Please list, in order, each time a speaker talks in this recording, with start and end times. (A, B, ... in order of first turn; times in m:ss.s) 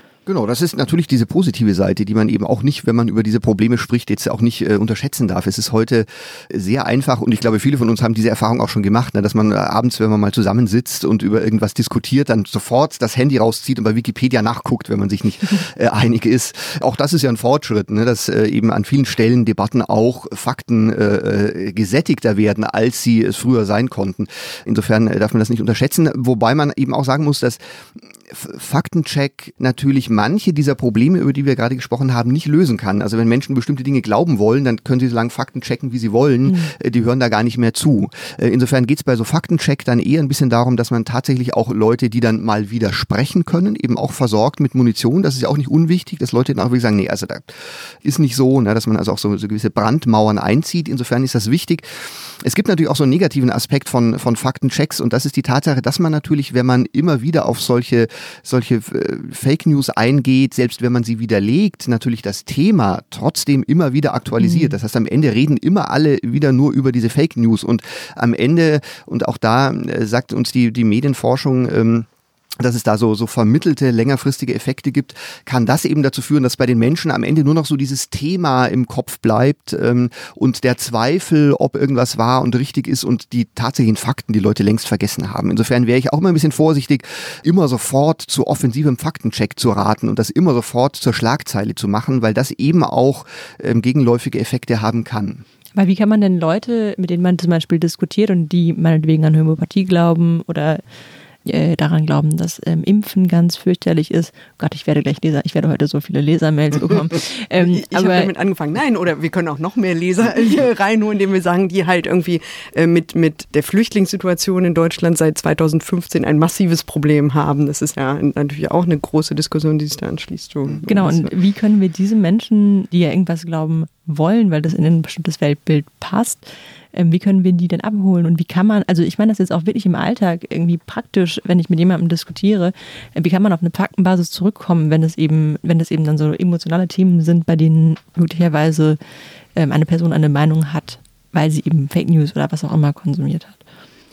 0:00.3-1:12.1 A
1:04.4-1:04.7 B
1:12.6-1:35.4 A
1:35.8-1:40.8 B
1:41.4-1:48.3 B
1:47.6-2:01.3 C
2:00.8-2:19.0 B
2:19.6-2:23.6 B